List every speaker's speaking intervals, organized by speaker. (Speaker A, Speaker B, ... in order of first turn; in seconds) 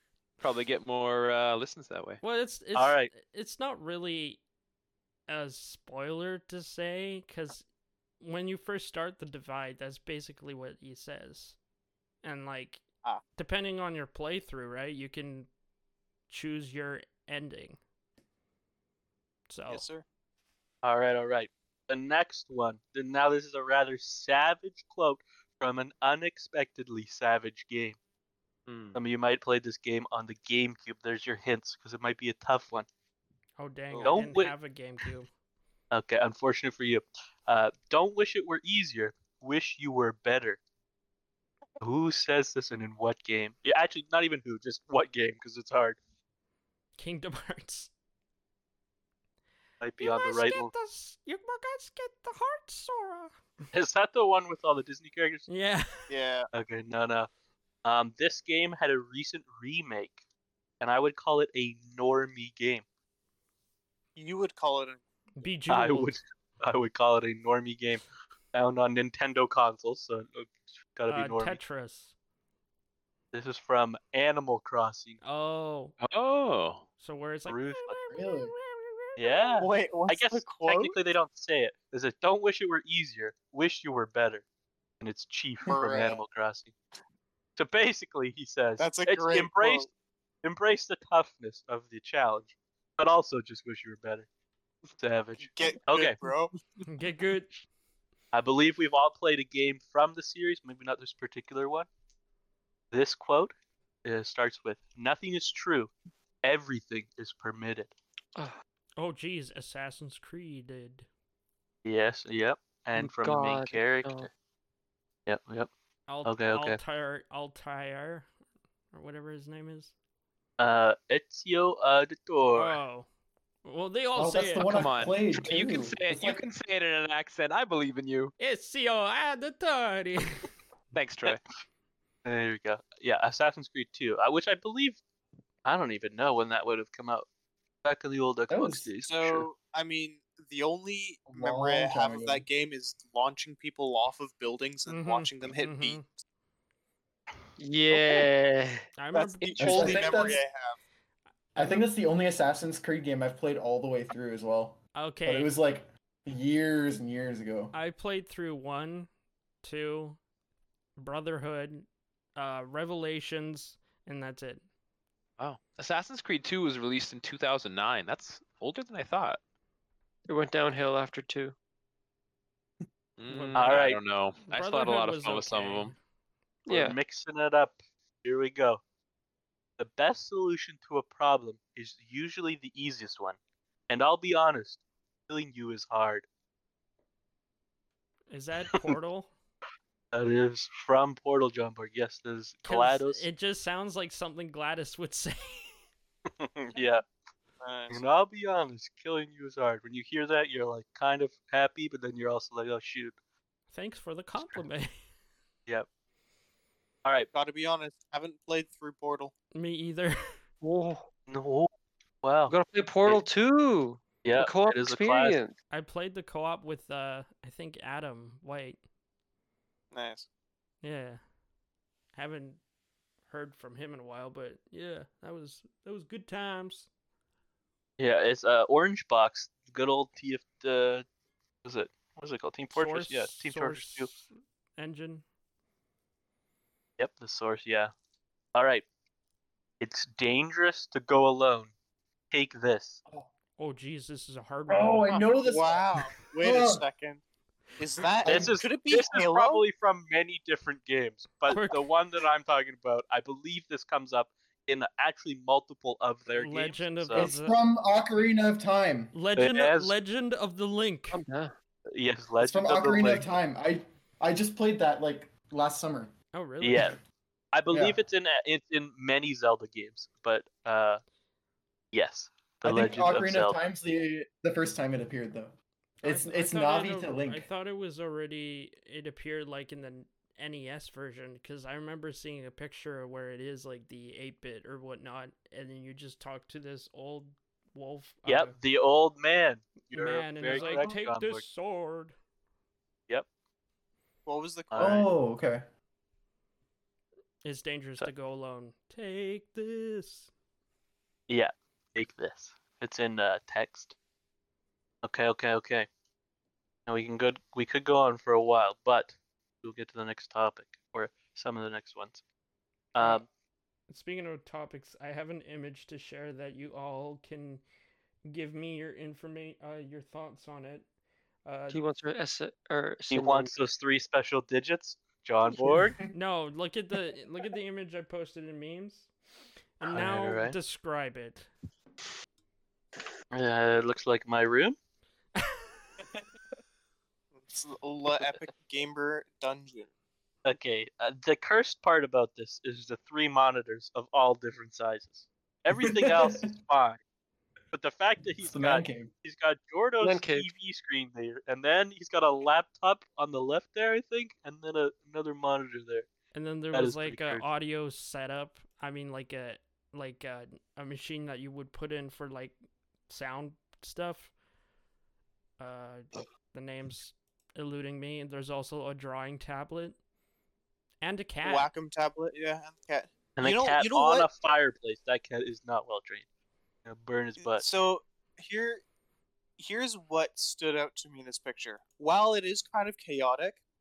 Speaker A: 0.4-2.2, 28.7-29.0, 76.0-76.8, 124.7-128.3, 130.9-131.4, 165.4-169.4, 173.2-175.9
Speaker B: 2.2-4.4, 5.3-7.7, 8.2-11.6, 12.2-12.8, 13.4-15.5, 16.3-17.8, 19.5-19.9, 33.6-35.3, 47.0-47.9, 50.0-53.3, 55.5-56.1, 65.4-66.2, 71.1-72.1, 75.2-76.0, 77.0-79.6, 96.8-97.6, 109.0-111.1, 116.1-118.3, 118.9-119.9, 122.5-123.1, 123.7-124.9, 128.4-130.4, 144.9-146.1, 149.0-150.3, 154.9-155.5, 157.7-159.1, 159.6-160.2, 161.0-164.6, 173.3-176.0, 188.3-189.3, 192.7-195.8, 203.7-204.9, 209.6-210.2, 215.7-218.8, 220.8-221.2, 222.2-222.6, 223.3-226.9, 232.7-235.2, 243.6-245.2, 251.5-251.8, 256.3-257.6, 259.1-261.2, 266.3-266.9, 276.0-288.6, 289.9-292.1, 297.4-300.3, 313.9-317.6, 318.3-320.9, 321.4-321.8, 326.1-329.1, 329.8-331.5, 356.3-362.6, 363.1-364.3, 365.6-370.0, 371.0-371.7
Speaker C: 2.8-3.1, 20.8-28.0, 28.9-32.9, 34.0-34.5, 35.9-40.6, 41.8-46.0, 49.8-50.7, 53.7-55.5, 56.5-57.3, 57.8-60.2, 60.8-62.9, 65.7-71.6, 73.3-75.2, 77.5-78.0, 79.2-84.5, 85.0-86.7, 87.6-89.9, 90.4-94.3, 95.0-96.2, 98.3-101.9, 102.9-103.5, 104.0-105.9, 106.4-107.9, 111.8-114.3, 115.3-115.7, 116.2-116.8, 120.6-122.8, 132.2-135.0, 135.7-137.3, 137.8-139.5, 173.6-174.0, 176.7-178.8, 179.8-183.4, 183.9-186.3, 190.1-193.3, 196.4-197.0, 197.9-203.2, 207.1-207.3, 211.3-211.7, 212.2-213.2, 214.2-215.4, 228.0-231.1, 231.7-234.1, 237.0-237.9, 238.5-238.8, 239.8-241.7, 242.3-243.0, 248.2-257.3, 259.4-259.9, 261.9-263.2, 266.6-267.0, 267.5-271.0, 271.9-273.6, 288.3-291.4, 294.7-295.1, 301.3-303.9, 305.0-305.9, 306.9-312.2, 312.9-313.3, 323.1-326.0, 329.9-330.6, 333.3-334.8, 340.4-347.0, 347.7-356.1, 356.7-357.5, 373.4-376.2, 376.9-377.6
Speaker D: 19.7-20.1, 56.1-56.5, 64.2-65.0, 79.6-81.0, 85.7-86.2, 88.8-89.9, 95.4-96.6, 139.1-146.0, 149.1-150.8, 197.6-198.0, 207.3-209.3, 219.9-220.3, 245.1-247.2, 247.8-249.6, 294.3-295.1, 337.4-339.9, 371.4-374.3, 377.4-378.8, 379.6-383.6
Speaker E: 78.1-78.5, 124.2-126.4, 138.5-138.9, 141.3-142.5, 149.6-150.4, 151.6-157.7, 244.7-246.8, 248.2-248.5, 257.1-259.1, 262.4-266.1, 267.7-268.0, 272.6-277.5, 290.6-290.9, 294.8-295.6, 325.6-326.1, 345.8-346.5, 348.4-349.1
Speaker F: 113.0-114.3, 147.6-148.8, 170.3-171.6, 176.7-177.0, 210.6-211.1, 212.5-215.6, 261.1-261.5, 321.7-323.5, 350.0-350.5